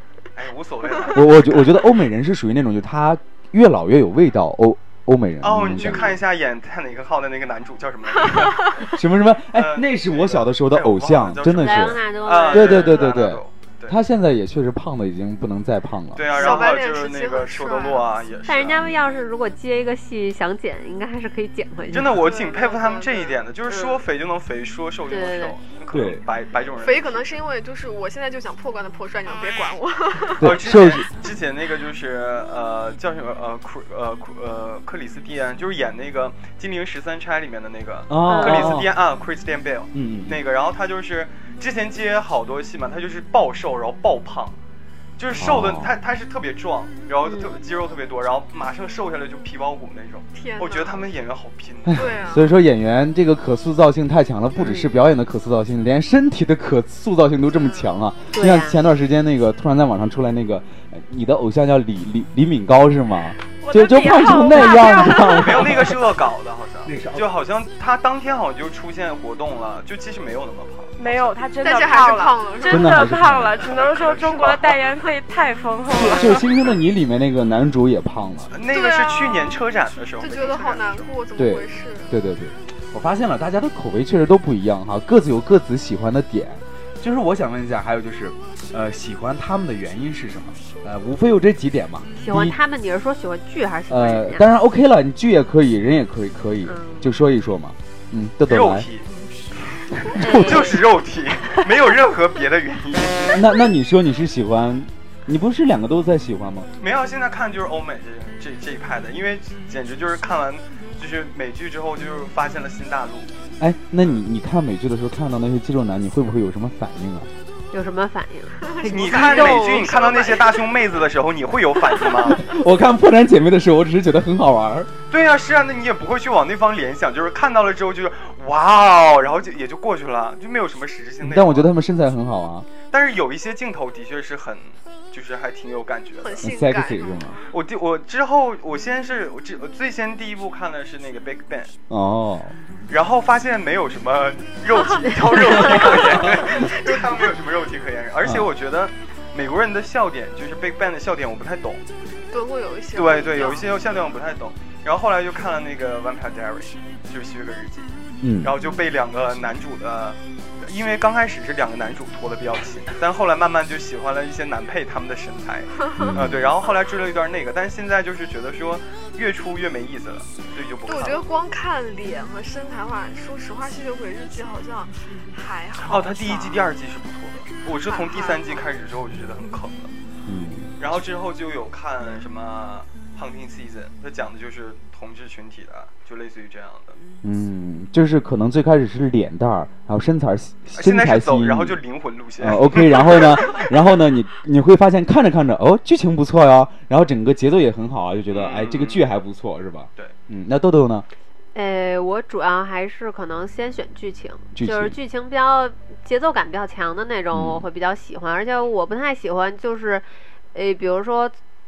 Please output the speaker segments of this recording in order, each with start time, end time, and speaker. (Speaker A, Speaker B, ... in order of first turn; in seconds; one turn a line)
Speaker A: 0.3-1.8
Speaker B: 1.1-6.2
Speaker A: 5.4-9.0
Speaker B: 8.9-16.5
Speaker A: 9.5-14.0
Speaker C: 11.6-13.0
Speaker A: 16.1-18.9
Speaker D: 16.3-18.1
Speaker C: 18.5-22.3
Speaker A: 21.9-27.2
Speaker D: 22.1-23.4
Speaker C: 23.7-24.0
Speaker C: 25.1-25.6
Speaker B: 25.9-26.2
Speaker D: 26.8-30.6
Speaker A: 30.4-44.6
Speaker B: 30.4-31.1
Speaker B: 38.1-38.9
Speaker C: 38.3-38.8
Speaker B: 39.9-40.4
Speaker A: 45.2-52.1
Speaker B: 45.4-45.9
Speaker C: 47.2-47.5
Speaker D: 50.4-51.1
Speaker B: 51.9-66.1
Speaker D: 52.0-52.5
Speaker C: 54.6-55.0
Speaker C: 58.3-58.8
Speaker E: 63.6-65.8
Speaker A: 65.2-71.2
Speaker B: 66.8-67.3
Speaker E: 71.0-76.5
Speaker D: 71.6-73.0
Speaker B: 72.7-73.6
Speaker A: 73.6-74.8
Speaker B: 75.9-78.5
Speaker A: 78.5-81.1
Speaker D: 78.7-79.6
Speaker D: 80.2-82.2
Speaker B: 81.4-92.6
Speaker C: 92.2-94.5
Speaker B: 93.9-98.9
Speaker C: 96.7-97.1
Speaker A: 98.5-99.1
Speaker C: 100.1-100.8
Speaker B: 100.1-100.7
Speaker A: 100.2-103.4
Speaker B: 103.3-106.7
Speaker A: 106.8-113.3
Speaker B: 113.6-117.3
Speaker C: 117.7-120.0
Speaker D: 118.6-120.7
Speaker A: 118.9-122.5
Speaker B: 122.3-124.9
Speaker A: 125.1-131.7
Speaker B: 131.2-132.7
Speaker A: 132.8-136.5
Speaker D: 136.2-137.5
Speaker B: 136.4-137.4
Speaker A: 137.5-141.7
Speaker B: 141.9-142.6
Speaker A: 142.9-151.8
Speaker D: 146.1-147.1
Speaker B: 148.2-148.5
Speaker D: 152.3-153.7
Speaker A: 152.9-171.4
Speaker B: 158.2-158.5
Speaker B: 166.0-166.4
Speaker D: 170.9-176.7
Speaker A: 175.8-179.9
Speaker D: 177.9-178.7
Speaker B: 180.3-180.7
Speaker A: 180.8-187.0
Speaker B: 187.2-191.8
Speaker A: 190.7-193.7
Speaker B: 192.4-201.1
Speaker A: 198.3-199.1
Speaker C: 201.6-211.3
Speaker B: 204.5-205.0
Speaker B: 207.3-207.7